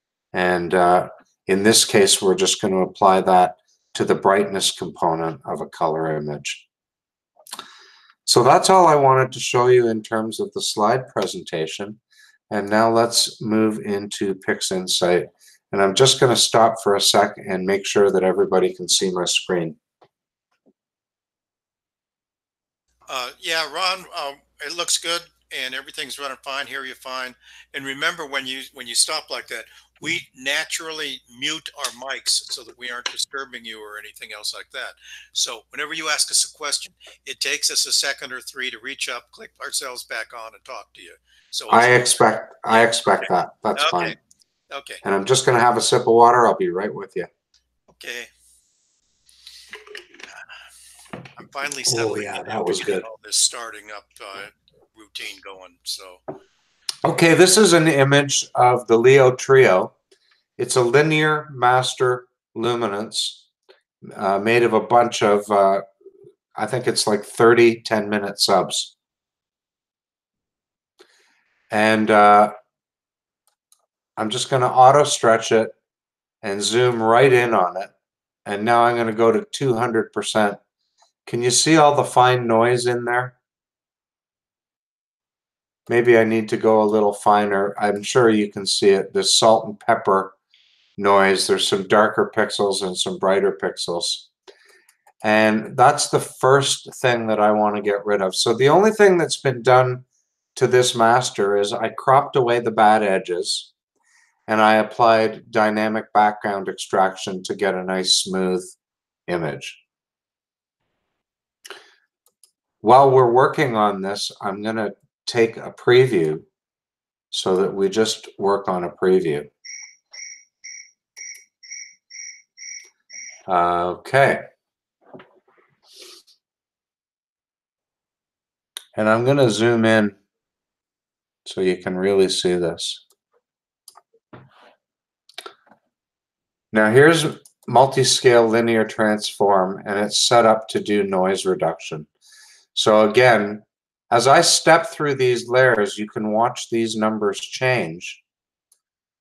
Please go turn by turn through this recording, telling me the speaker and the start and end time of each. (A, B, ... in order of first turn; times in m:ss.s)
0:00.3-0:06.6 A
0:08.2-0:19.8 A
0:23.1-0:42.1 B
0:41.7-0:44.2 A
0:42.7-0:44.2 B
0:44.7-0:45.0 B
0:45.0-0:47.3 A
0:47.9-0:48.3 B
0:51.4-0:56.2 B
0:51.8-0:53.0 A
0:57.0-0:59.9 A
1:00.6-1:03.4 A
1:04.0-1:05.8 A
1:06.6-1:08.9 A
1:11.7-1:12.5 A
1:14.2-1:15.7 A
1:16.4-1:17.9 A
1:18.4-1:20.6 A
1:21.2-1:23.4 A
1:25.9-1:30.3 A
1:31.0-1:34.3 A
1:35.2-1:43.7 A
1:44.5-1:48.7 A
1:49.3-1:49.8 A
1:52.8-1:56.5 A
1:57.3-1:59.5 A
2:03.5-2:04.4 A
2:08.9-2:10.2 A
2:11.4-2:13.0 A
2:16.7-2:22.1 A
2:22.7-2:28.2 A